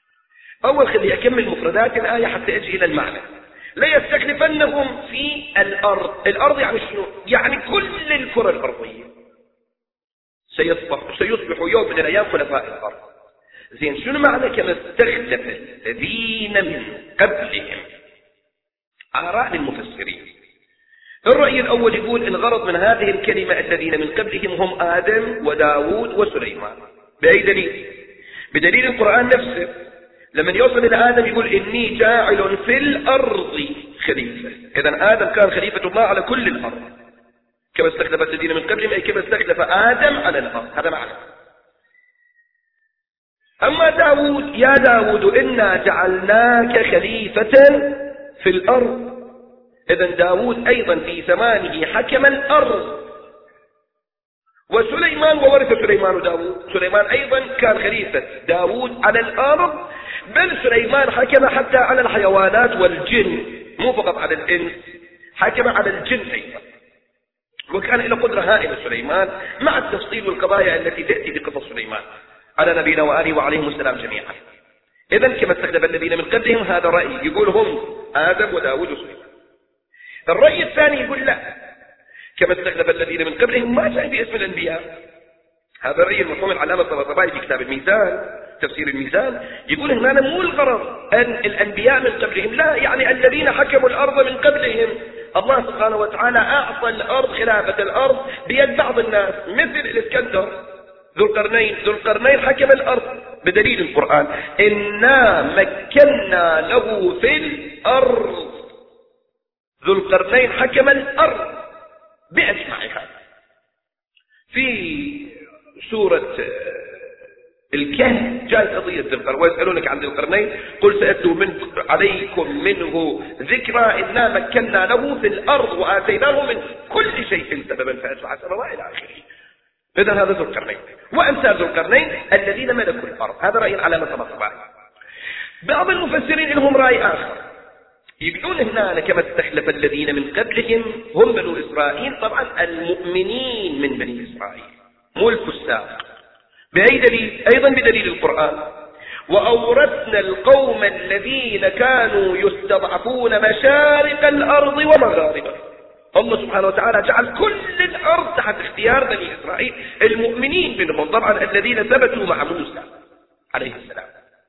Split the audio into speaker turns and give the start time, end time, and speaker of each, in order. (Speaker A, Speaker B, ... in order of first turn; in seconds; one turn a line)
Speaker A: 0.6-9.1
Speaker A: 10.5-13.0
Speaker A: 13.7-17.9
Speaker A: 19.1-20.3
Speaker A: 21.2-27.9
Speaker A: 28.5-29.7
Speaker A: 30.4-36.9
Speaker A: 37.8-41.2
Speaker A: 43.6-49.1
Speaker A: 49.9-53.0
Speaker A: 54.7-64.8
Speaker A: 65.4-66.6
Speaker A: 67.7-72.0
Speaker A: 72.6-74.4
Speaker A: 75.1-79.3
Speaker A: 80.3-81.5
Speaker A: 82.4-84.8
Speaker A: 85.8-100.6
Speaker A: 101.2-108.6
Speaker A: 109.8-111.6
Speaker A: 112.3-113.1
Speaker A: 114.5-117.1
Speaker A: 117.7-129.2
Speaker A: 129.9-134.6
Speaker A: 135.6-137.4
Speaker A: 138.2-146.0
Speaker A: 146.7-148.7
Speaker A: 149.3-155.6
Speaker A: 156.1-162.9
Speaker A: 163.5-164.1